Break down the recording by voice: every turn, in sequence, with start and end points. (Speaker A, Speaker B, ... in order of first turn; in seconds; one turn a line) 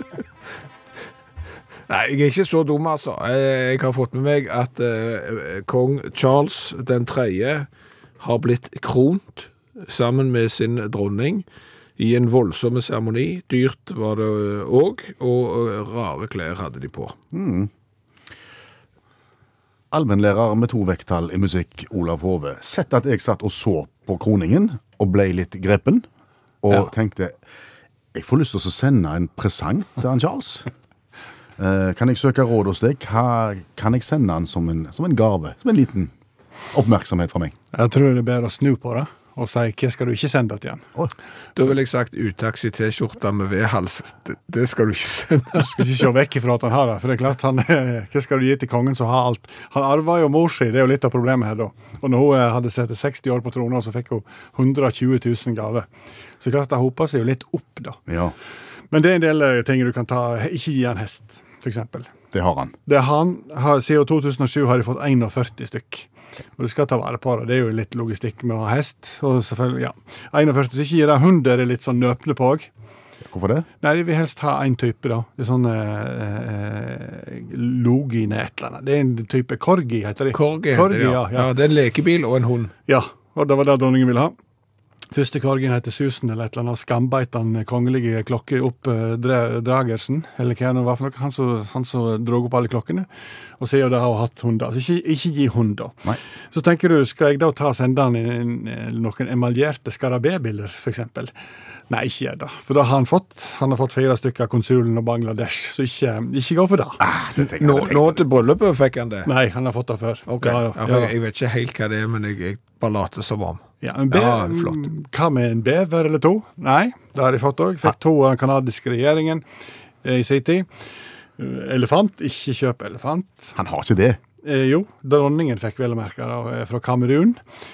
Speaker A: 1.9-7.7
Speaker A: 8.2-11.4
Speaker A: 12.0-17.1
Speaker B: 17.3-17.7
Speaker B: 19.9-26.1
Speaker B: 26.6-27.4
Speaker B: 28.1-30.7
Speaker B: 31.6-36.1
Speaker B: 36.7-37.5
Speaker C: 37.7-40.9
Speaker B: 41.0-41.6
Speaker A: 41.6-46.1
Speaker C: 45.6-55.9
Speaker C: 56.4-58.0
Speaker B: 58.1-58.3
Speaker C: 58.9-62.1
Speaker B: 62.3-62.8
Speaker C: 62.9-72.7
Speaker B: 73.3-73.7
Speaker C: 73.8-81.5
Speaker A: 80.3-82.7
Speaker C: 82.9-84.3
Speaker C: 85.1-93.1
Speaker C: 93.6-101.3
Speaker C: 101.9-107.0
Speaker B: 107.0-108.2
Speaker A: 107.6-109.3
Speaker C: 109.3-111.1
Speaker A: 110.3-114.8
Speaker C: 113.8-119.4
Speaker C: 120.0-120.7
Speaker C: 121.4-123.5
Speaker B: 123.6-124.2
Speaker C: 124.4-127.4